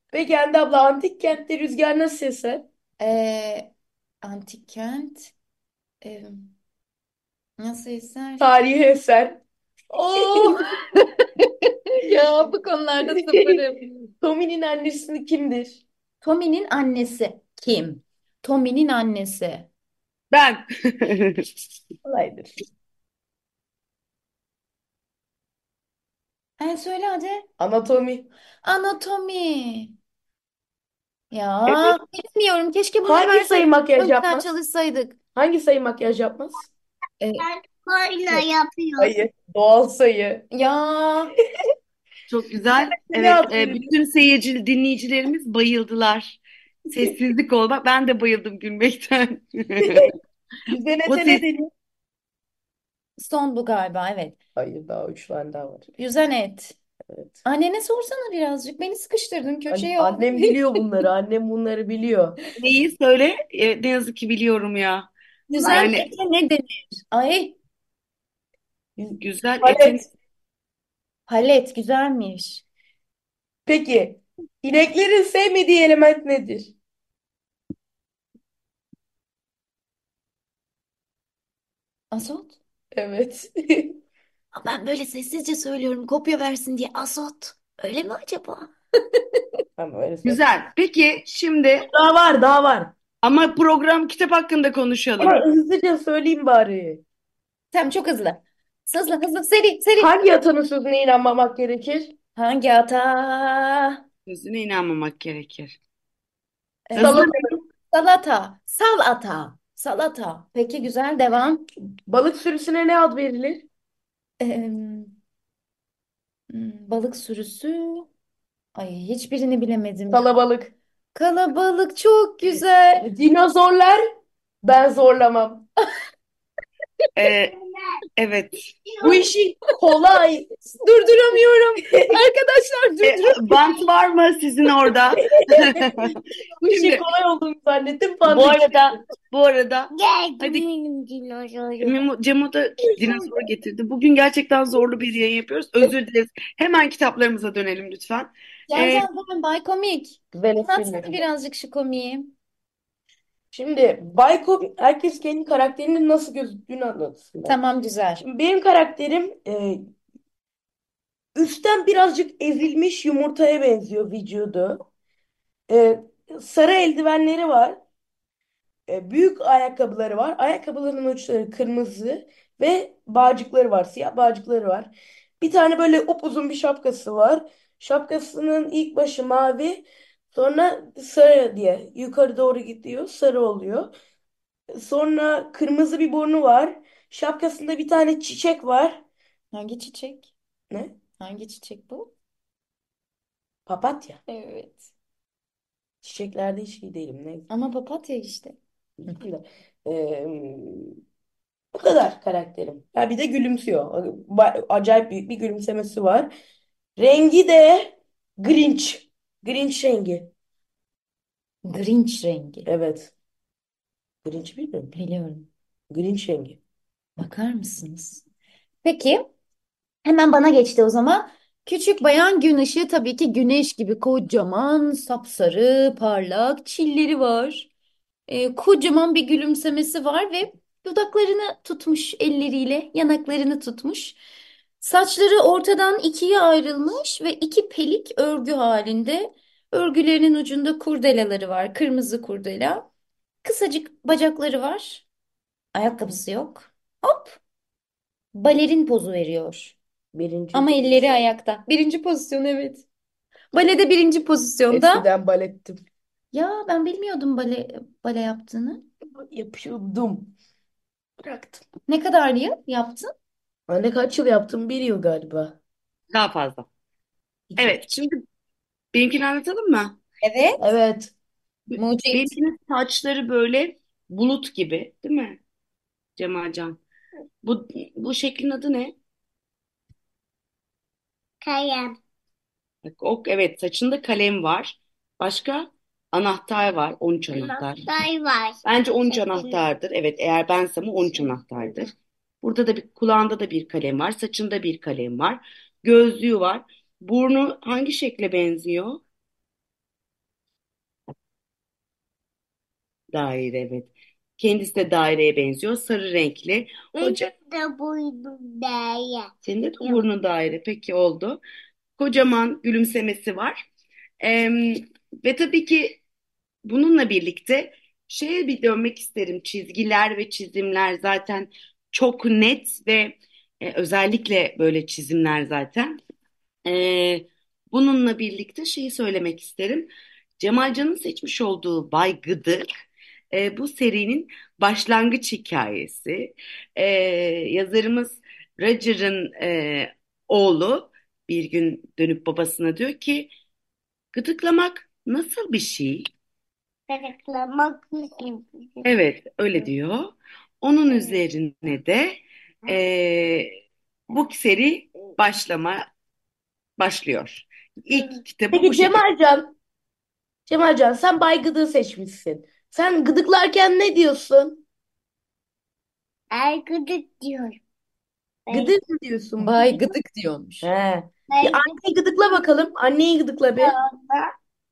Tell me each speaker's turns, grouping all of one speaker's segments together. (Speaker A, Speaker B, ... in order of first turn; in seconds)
Speaker A: 0.1-2.7, 8.4-9.4, 14.2-15.8, 22.1-22.5, 27.6-28.3, 33.0-34.5, 35.4-36.7, 39.0-40.4, 42.8-43.9, 49.8-50.1, 50.7-51.7, 54.6-55.9, 59.7-62.4, 65.6-65.9, 69.0-70.0, 73.7-76.7, 82.9-84.0, 89.8-90.4, 91.9-92.9, 95.2-97.0, 100.0-102.1, 107.0-107.6, 112.1-113.7, 120.1-120.7, 123.0-124.0, 124.6-125.7, 129.0-130.5, 131.9-132.2, 135.1-139.0, 150.3-151.2, 153.5-157.6, 158.2-159.8, 161.3-164.8, 165.7-167.8, 168.9-183.9, 184.7-189.0, 193.7-194.2, 196.0-197.5, 199.1-201.0, 201.8-206.3, 207.0-210.3, 212.7-213.1, 214.2-214.9, 215.9-216.6, 250.1-251.1, 254.7-255.8, 259.2-260.3, 261.2-261.6, 263.7-265.6, 270.6-271.1, 358.5-359.6, 360.5-364.6, 368.5-369.8, 370.6-373.8
Speaker B: 3.0-5.3, 6.0-6.5, 7.6-8.5, 9.9-13.9, 16.2-19.7, 26.6-27.5, 28.6-29.9, 31.3-35.2, 37.2-37.5, 40.5-41.4, 53.2-54.4, 56.0-56.8, 57.4-60.6, 65.5-67.6, 71.3-72.6, 82.1-82.6, 84.5-89.2, 97.7-100.1, 102.4-104.0, 106.9-111.7, 114.4-115.1, 116.5-118.1, 118.8-120.2, 121.1-123.1, 130.6-133.6, 148.7-152.3, 157.4-158.2, 189.5-190.3, 191.2-192.1, 194.3-194.9, 197.5-198.6, 211.6-212.7, 214.9-215.5, 217.2-218.2, 218.8-219.3, 220.0-227.7, 228.3-234.2, 234.8-242.9, 243.4-245.1, 245.7-247.4, 248.3-249.8, 250.5-252.9, 253.5-255.1, 256.3-258.9, 261.9-263.1, 270.2-270.6, 271.8-272.3, 369.4-370.7
Speaker C: 20.3-21.5, 42.3-50.1, 51.1-51.4, 62.6-66.1, 69.2-70.0, 90.2-91.9, 93.2-95.4, 104.3-105.8, 107.0-107.3, 127.2-127.5, 128.2-128.7, 133.0-136.1, 136.7-137.0, 138.3-140.6, 141.8-149.1, 266.1-266.6, 267.6-268.2, 268.9-270.0, 271.7-275.4, 276.2-276.8, 277.4-278.9, 282.9-287.9, 288.6-299.0, 303.1-307.3, 309.4-311.4, 312.0-313.6, 314.2-316.0, 316.6-326.0, 326.6-332.7, 333.3-343.3, 344.1-346.1, 348.8-353.5, 354.1-355.9, 356.8-359.0
Speaker D: 37.4-39.1, 127.5-128.0, 128.9-129.2, 139.9-141.9, 143.0-143.3, 281.4-282.0, 287.3-289.6, 307.0-309.3, 346.9-348.9, 366.3-367.6, 368.5-368.7, 371.3-371.8, 373.6-374.3